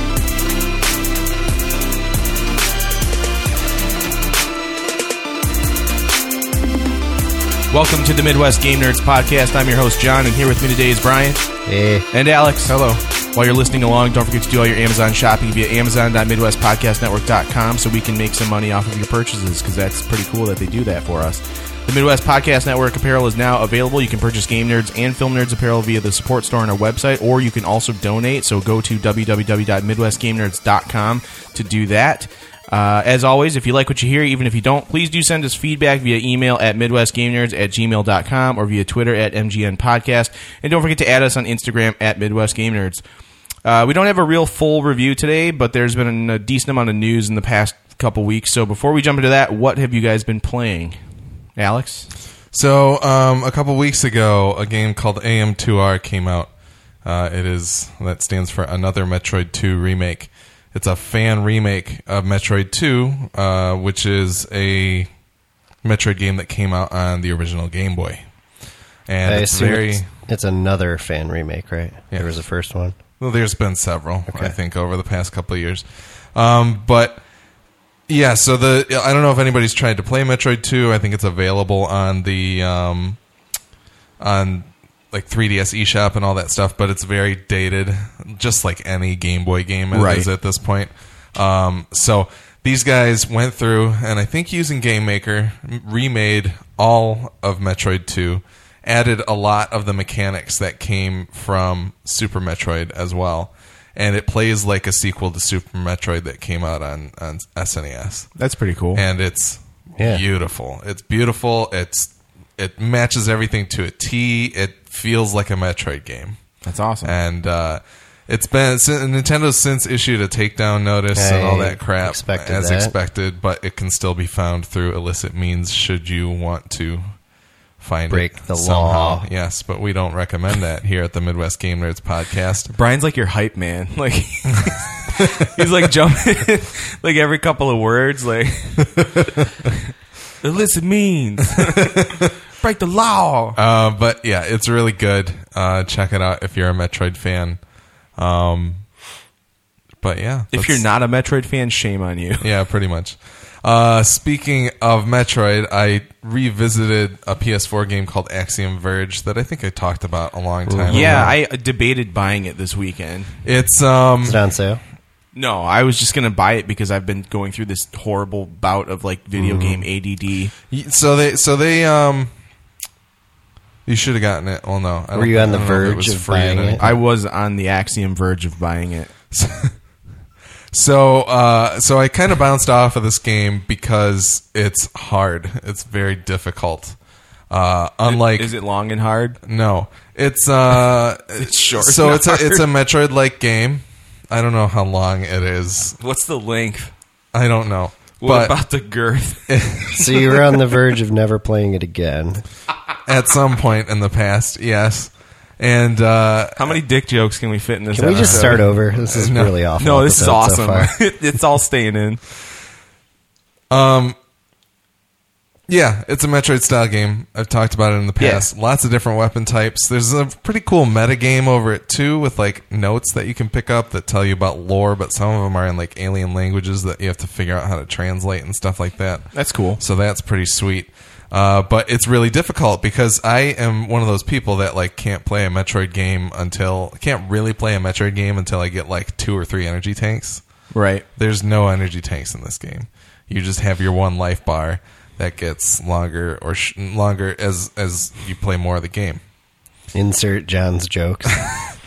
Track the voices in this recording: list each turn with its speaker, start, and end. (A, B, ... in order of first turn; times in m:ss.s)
0:07.7-0:11.4 A
0:11.7-0:12.1 B
0:12.1-0:43.0 A
0:43.6-0:51.0 A
0:51.6-0:52.1 A
0:52.5-0:56.5 C
0:57.0-1:05.1 C
1:05.8-1:08.2 C
1:09.1-1:10.1 C
1:09.2-1:13.0 B
1:13.2-1:17.2 C
1:14.3-1:14.6 B
1:18.1-1:23.2 C
1:24.2-1:48.3 C
1:29.9-1:30.3 A
1:48.4-1:49.0 A
1:49.0-1:56.4 C
1:56.6-1:57.1 A
1:57.0-2:07.2 C
2:01.1-2:02.9 B
2:07.8-2:12.8 C
2:08.1-2:09.3 B
2:12.7-2:19.3 A
2:20.4-2:23.6 A
2:21.9-2:22.3 C
2:23.6-2:27.6 C
2:28.2-2:28.9 C
2:30.0-2:30.9 C
2:30.5-2:32.5 A
2:32.4-2:41.3 C
2:40.7-2:41.3 B
2:40.9-2:43.3 A
2:43.4-2:44.4 C
2:44.2-2:44.8 B
2:45.3-2:50.5 A
2:49.4-2:49.8 B
2:50.7-2:52.3 C
2:53.9-2:57.0 C
2:55.1-2:56.8 B
2:56.8-2:59.1 A
2:59.3-2:59.8 C
3:00.7-3:07.0 C
3:07.5-3:08.5 C
3:08.1-3:09.4 A
3:09.4-3:16.0 C
3:11.4-3:12.7 A
3:16.0-3:16.9 A
3:17.3-3:18.6 C
3:18.2-3:19.8 A
3:19.5-3:20.1 C
3:20.0-3:22.4 B
3:23.1-3:26.8 C
3:26.6-3:28.6 A
3:27.9-3:30.9 B
3:28.2-3:29.6 C
3:29.8-3:32.2 A
3:33.7-3:34.2 C
3:35.7-4:00.4 C
3:38.2-3:38.5 A
3:49.3-3:49.8 A
4:00.7-4:01.1 A
4:01.2-4:09.2 C
4:09.9-4:11.4 B
4:11.4-4:11.7 C